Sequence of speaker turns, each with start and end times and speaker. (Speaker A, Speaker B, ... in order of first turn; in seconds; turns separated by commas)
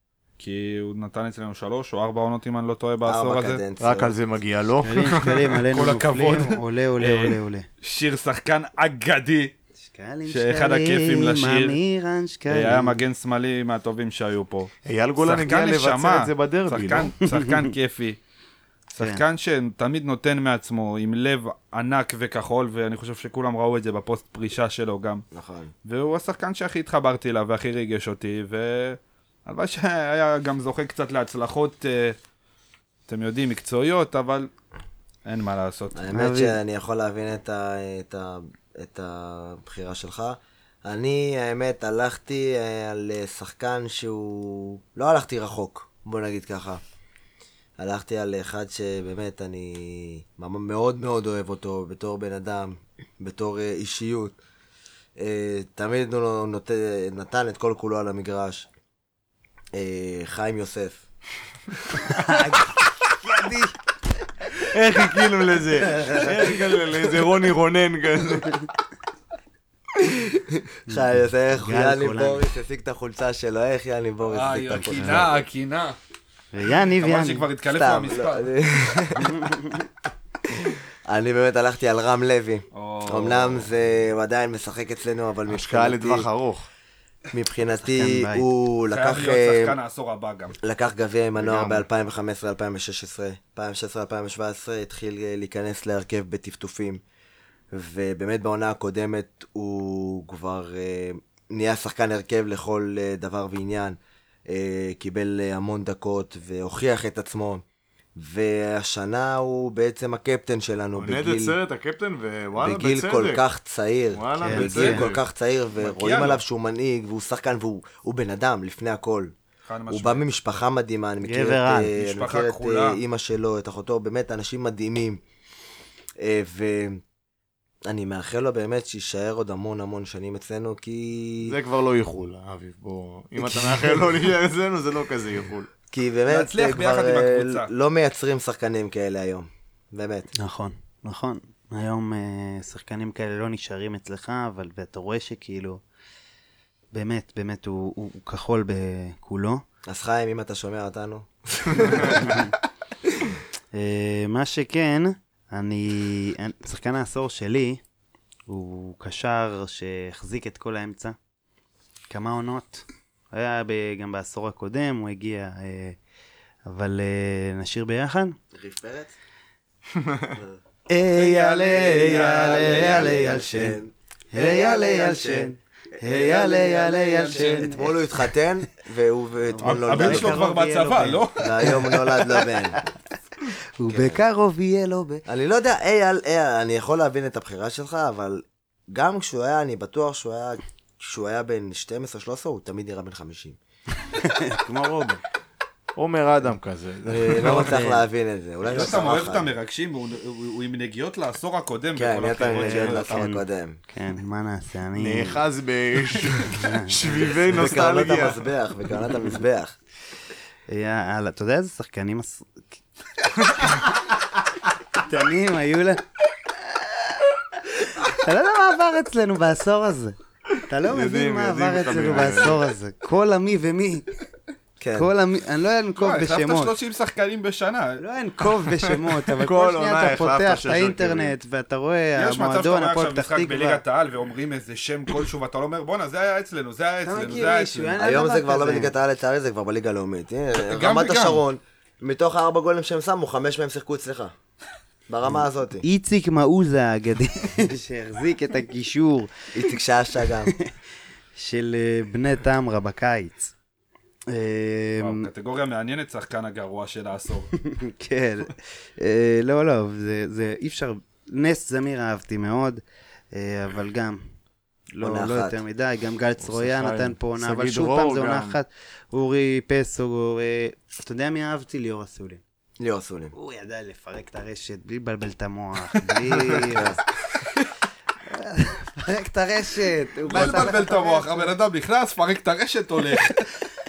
Speaker A: 0.4-3.6, Speaker B: 3.0-4.1, Speaker C: 3.8-5.4, Speaker D: 4.8-7.7, Speaker A: 5.7-9.5, Speaker D: 9.8-13.0, Speaker A: 10.3-11.8, Speaker A: 12.5-18.2, Speaker C: 14.8-17.1, Speaker D: 17.3-17.7, Speaker A: 18.9-25.2, Speaker B: 25.3-25.7, Speaker A: 25.9-32.2, Speaker A: 33.1-34.5, Speaker A: 35.3-36.0, Speaker B: 35.9-46.8, Speaker D: 36.1-36.6, Speaker B: 47.8-54.4, Speaker B: 55.2-58.7, Speaker B: 59.7-61.0, Speaker D: 62.0-63.8, Speaker C: 64.5-68.6, Speaker B: 65.9-66.3, Speaker B: 70.0-75.4, Speaker D: 70.9-72.5, Speaker A: 74.2-76.0, Speaker D: 74.8-75.3, Speaker D: 76.5-77.5, Speaker A: 77.0-78.5, Speaker B: 77.7-79.6, Speaker B: 81.1-86.3, Speaker A: 82.7-83.7, Speaker C: 85.5-86.7, Speaker B: 87.3-89.8, Speaker D: 87.8-88.5, Speaker A: 88.9-90.6, Speaker B: 90.6-97.0, Speaker D: 91.4-91.9, Speaker B: 97.7-104.0, Speaker B: 104.5-107.6, Speaker B: 108.2-111.5, Speaker C: 111.0-113.4, Speaker B: 112.6-119.3, Speaker C: 114.1-115.2, Speaker D: 114.4-115.0, Speaker A: 115.8-116.4, Speaker A: 119.7-120.2, Speaker B: 119.9-125.2, Speaker D: 121.2-121.9, Speaker A: 121.9-123.0, Speaker B: 126.2-127.0, Speaker B: 127.9-131.6, Speaker C: 131.4-135.7, Speaker B: 135.9-140.3, Speaker A: 136.3-137.7, Speaker D: 140.3-145.8, Speaker D: 146.9-149.6, Speaker B: 149.9-152.5, Speaker D: 152.1-152.5, Speaker D: 153.7-157.8, Speaker D: 158.5-161.2, Speaker D: 162.1-166.0, Speaker D: 166.7-168.3, Speaker B: 168.5-169.1, Speaker C: 169.9-170.4, Speaker D: 170.9-173.8, Speaker A: 171.2-173.3, Speaker B: 172.0-180.4, Speaker D: 174.3-178.1, Speaker A: 177.3-177.7, Speaker D: 179.5-182.9, Speaker A: 179.6-181.8, Speaker B: 181.4-182.8, Speaker D: 183.8-185.2, Speaker B: 183.9-184.2, Speaker B: 185.3-193.6, Speaker D: 194.1-195.2, Speaker C: 196.0-197.8, Speaker B: 197.1-199.5, Speaker D: 197.4-198.1, Speaker A: 198.7-203.3, Speaker B: 202.0-203.8, Speaker D: 202.5-205.4, Speaker C: 205.0-208.5, Speaker D: 206.3-207.3, Speaker B: 207.5-209.8, Speaker D: 210.7-212.8, Speaker D: 214.9-216.0, Speaker D: 216.6-220.2, Speaker D: 220.7-224.1, Speaker C: 220.8-222.6, Speaker B: 224.8-225.1, Speaker D: 224.9-226.7, Speaker A: 226.0-228.0, Speaker D: 228.0-233.8, Speaker C: 228.9-231.3, Speaker A: 232.2-238.0, Speaker D: 237.1-238.9, Speaker B: 238.0-244.3, Speaker A: 240.5-241.4, Speaker B: 245.1-245.8, Speaker D: 245.8-249.3, Speaker B: 249.5-250.5, Speaker D: 251.3-253.5, Speaker D: 254.3-255.3, Speaker A: 255.0-257.5, Speaker D: 257.6-262.8, Speaker D: 263.3-264.2, Speaker B: 265.0-265.6, Speaker D: 265.0-272.4, Speaker C: 266.4-268.6, Speaker B: 272.8-273.3, Speaker D: 273.4-277.0, Speaker C: 276.3-276.8, Speaker B: 276.6-277.0, Speaker D: 278.3-281.5, Speaker A: 280.3-283.5